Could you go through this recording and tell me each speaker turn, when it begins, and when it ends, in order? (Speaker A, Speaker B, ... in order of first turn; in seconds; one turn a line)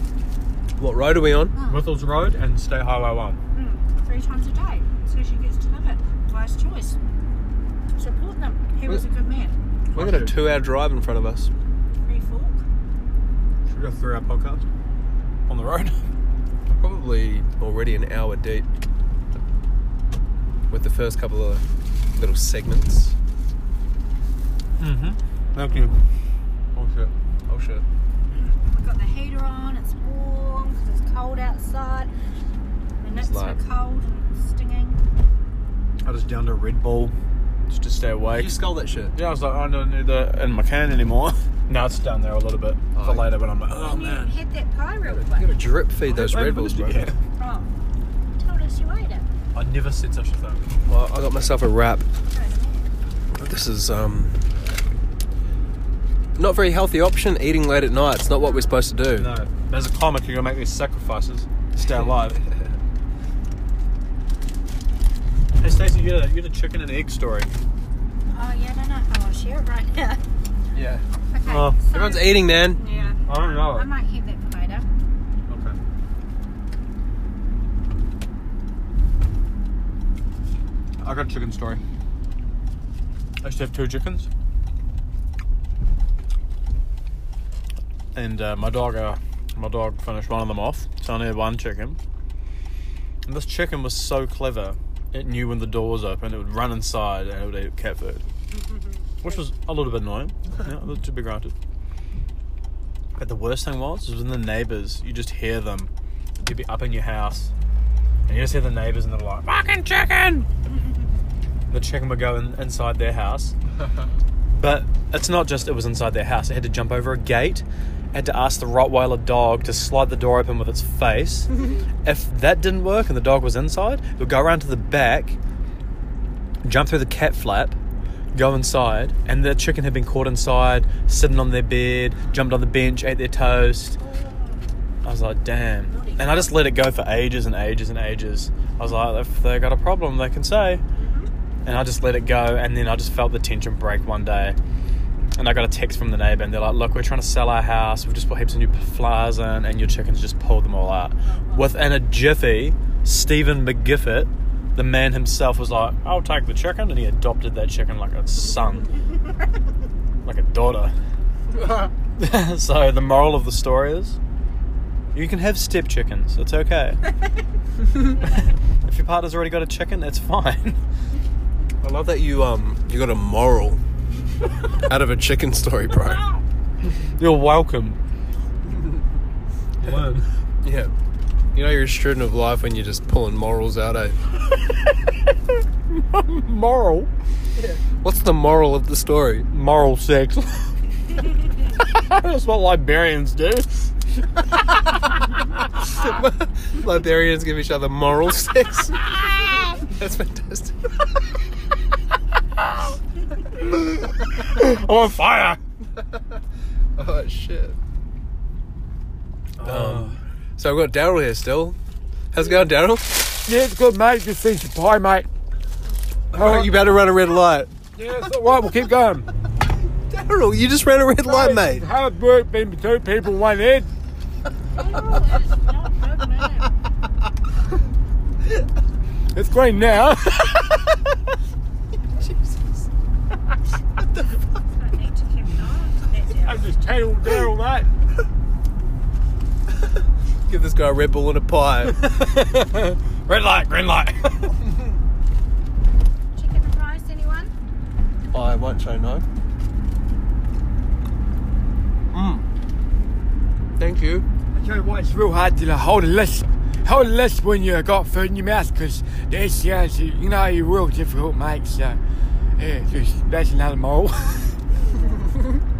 Speaker A: 0.8-1.6
Speaker B: 1.5-1.9
Speaker C: 1.7-3.4
Speaker B: 3.5-7.0
Speaker B: 8.0-9.6
Speaker A: 9.9-11.5
Speaker C: 9.9-10.4
Speaker B: 12.0-12.6
Speaker C: 13.7-14.6
Speaker C: 15.5-16.0
Speaker A: 16.7-18.7
Speaker A: 20.7-21.6
Speaker A: 22.2-23.2
Speaker C: 24.8-26.0
Speaker C: 26.8-27.1
Speaker A: 27.5-27.9
Speaker B: 28.6-32.1
Speaker B: 33.0-35.0
Speaker A: 33.1-33.6
Speaker C: 36.0-37.1
Speaker C: 37.7-38.5
Speaker A: 38.3-39.2
Speaker C: 39.1-44.3
Speaker A: 43.0-43.3
Speaker B: 43.8-45.5
Speaker A: 45.1-47.1
Speaker C: 46.0-47.2
Speaker B: 47.4-47.7
Speaker B: 48.4-49.3
Speaker C: 49.5-50.7
Speaker A: 50.9-52.0
Speaker B: 52.3-52.9
Speaker A: 53.3-54.5
Speaker A: 56.4-59.3
Speaker B: 58.3-58.8
Speaker C: 59.1-62.4
Speaker A: 61.8-62.7
Speaker C: 65.6-67.5
Speaker B: 68.3-70.2
Speaker A: 70.7-71.0
Speaker B: 71.3-74.9
Speaker C: 71.5-71.8
Speaker A: 71.9-72.8
Speaker C: 72.9-73.9
Speaker C: 75.5-75.8
Speaker C: 81.0-81.8
Speaker C: 83.4-84.3
Speaker C: 88.2-92.0
Speaker C: 93.2-98.2
Speaker B: 98.5-99.4
Speaker C: 99.2-101.5
Speaker C: 103.2-107.5
Speaker C: 108.3-110.5
Speaker C: 111.7-113.5
Speaker C: 114.5-121.5
Speaker C: 122.0-125.4
Speaker C: 126.6-127.8
Speaker C: 128.3-134.0
Speaker B: 134.0-134.6
Speaker C: 135.0-140.8
Speaker B: 135.9-136.6
Speaker B: 141.0-141.3
Speaker C: 141.7-144.6
Speaker C: 145.4-158.9
Speaker B: 151.2-151.7
Speaker C: 160.2-160.9
Speaker A: 161.5-161.9
Speaker C: 162.2-164.2
Speaker C: 165.1-167.0
Speaker C: 168.2-170.8
Speaker A: 171.8-173.8
Speaker A: 174.8-176.2
Speaker C: 176.8-178.0
Speaker A: 178.7-179.0
Speaker C: 179.8-180.3
Speaker A: 180.6-180.9
Speaker A: 181.5-184.2
Speaker C: 185.9-187.1
Speaker A: 187.6-189.5
Speaker C: 189.5-190.7
Speaker C: 191.7-193.9
Speaker A: 195.8-201.0
Speaker C: 203.7-205.6
Speaker A: 206.0-206.4
Speaker A: 207.0-207.8
Speaker C: 209.6-210.2
Speaker A: 209.6-211.8
Speaker A: 212.3-213.3
Speaker D: 213.4-215.3
Speaker A: 216.3-217.7
Speaker D: 216.3-216.9
Speaker D: 217.9-219.3
Speaker A: 220.1-221.9
Speaker D: 221.2-223.9
Speaker B: 224.7-226.7
Speaker D: 229.3-230.9
Speaker A: 232.1-232.9
Speaker B: 234.7-236.7
Speaker D: 236.4-237.9
Speaker A: 240.5-242.0
Speaker C: 241.8-244.6
Speaker B: 246.3-247.5
Speaker A: 248.3-249.2
Speaker A: 252.1-252.4
Speaker A: 253.8-254.3
Speaker D: 254.5-262.0
Speaker D: 262.6-264.5